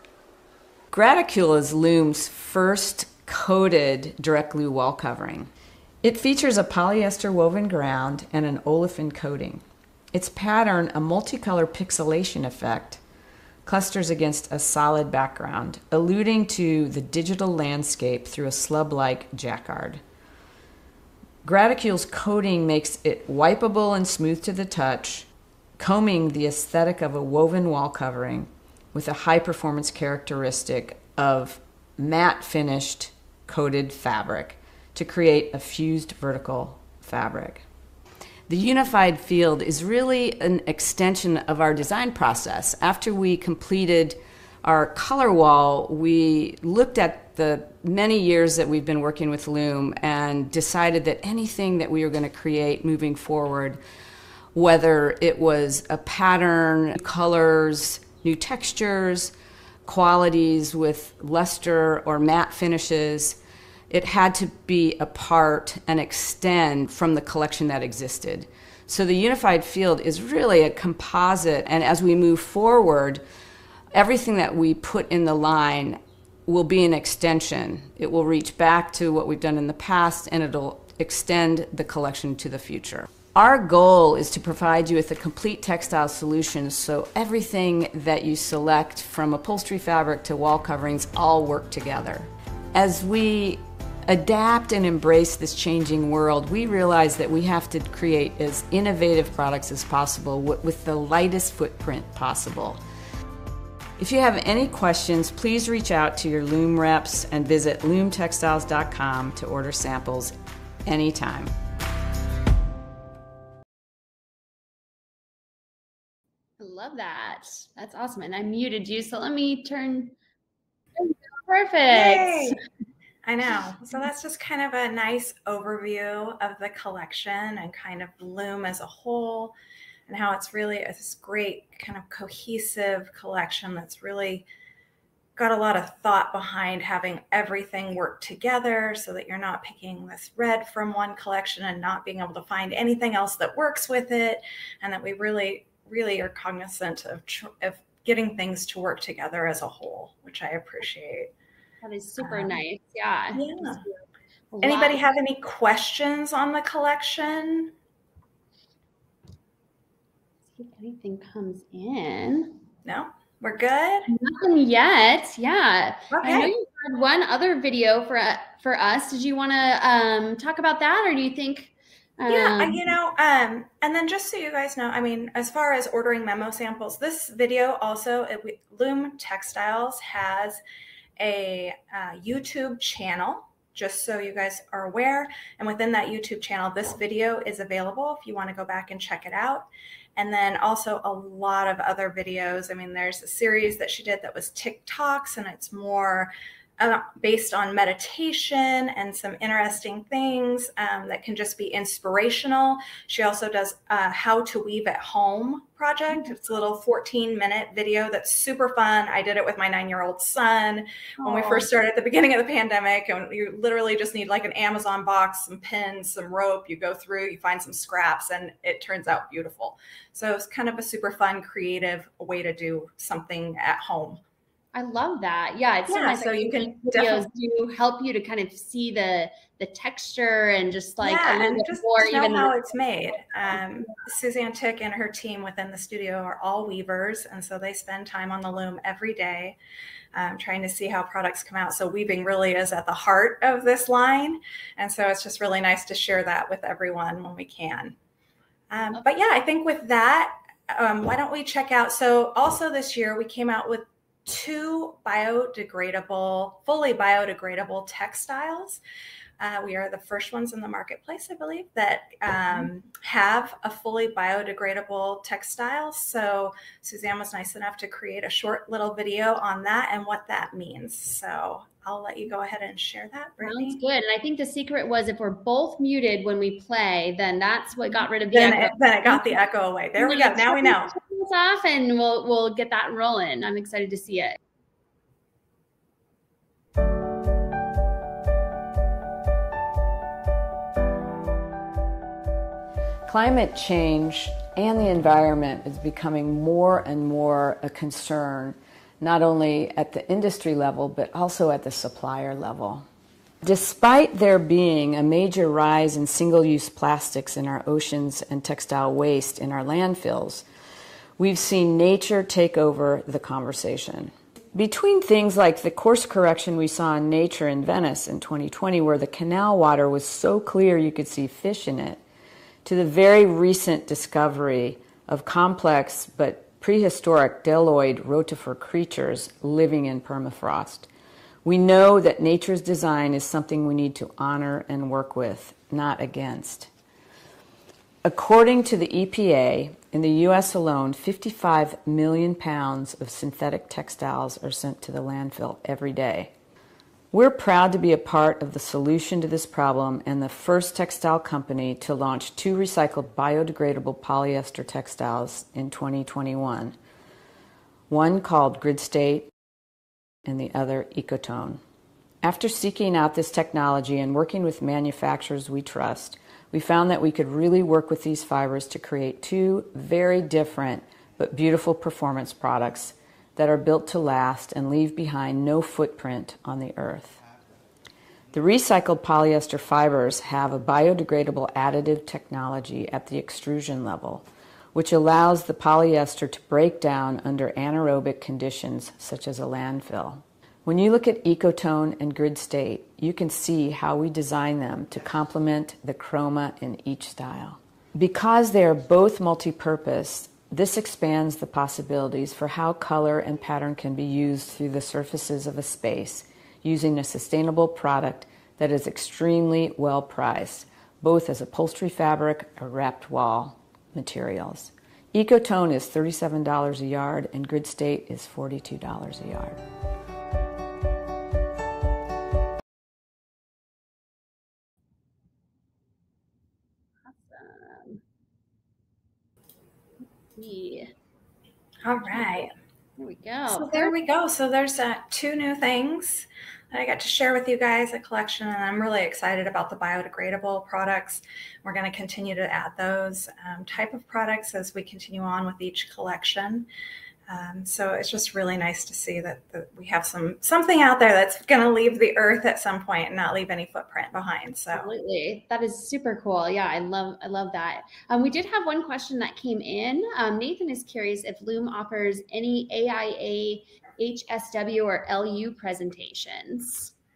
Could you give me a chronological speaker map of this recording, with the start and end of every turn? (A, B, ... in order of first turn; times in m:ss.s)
0:00.9-0:05.5 A
0:06.0-0:13.0 A
0:13.6-0:20.0 A
0:21.4-0:37.6 A
0:38.5-0:53.8 A
0:54.5-0:59.3 A
0:59.8-1:03.4 A
1:03.9-1:13.2 A
1:13.9-1:42.8 A
1:44.0-1:51.5 A
1:56.6-2:00.1 B
2:01.0-2:02.6 B
2:01.9-2:02.6 C
2:03.2-2:09.5 C
2:10.1-2:14.5 C
2:15.4-2:31.3 C
2:31.8-2:33.9 B
2:32.2-2:32.6 C
2:33.3-2:33.8 C
2:34.5-2:35.0 B
2:34.6-2:37.7 C
2:40.5-2:42.6 B
2:42.8-2:44.1 C
2:44.1-2:52.8 B
2:46.1-2:46.5 C
2:52.3-3:00.6 C
3:01.2-3:44.2 C
3:31.2-3:31.7 B
3:44.7-3:52.8 B
3:45.9-3:47.3 C
3:51.0-3:59.6 C
4:00.1-4:08.0 C
4:08.7-4:18.8 C
4:19.4-4:33.8 C
4:33.4-4:39.4 B
4:38.3-4:40.9 C
4:40.0-4:44.4 B
4:53.0-5:02.8 A
5:03.4-5:10.4 A
5:11.2-5:22.0 A
5:22.6-5:30.9 A
5:31.4-5:36.7 A
5:38.0-5:46.3 A
5:47.1-5:56.7 A
5:57.9-5:59.3 A
6:00.2-6:01.6 A
6:02.2-6:17.2 A
6:18.3-6:59.6 A
7:07.0-7:08.0 B
7:10.3-7:10.9 B
7:11.8-7:12.5 C
7:12.1-7:12.4 B
7:13.0-7:13.9 B
7:13.5-7:26.7 C
7:27.3-7:34.9 C
7:34.7-7:46.9 B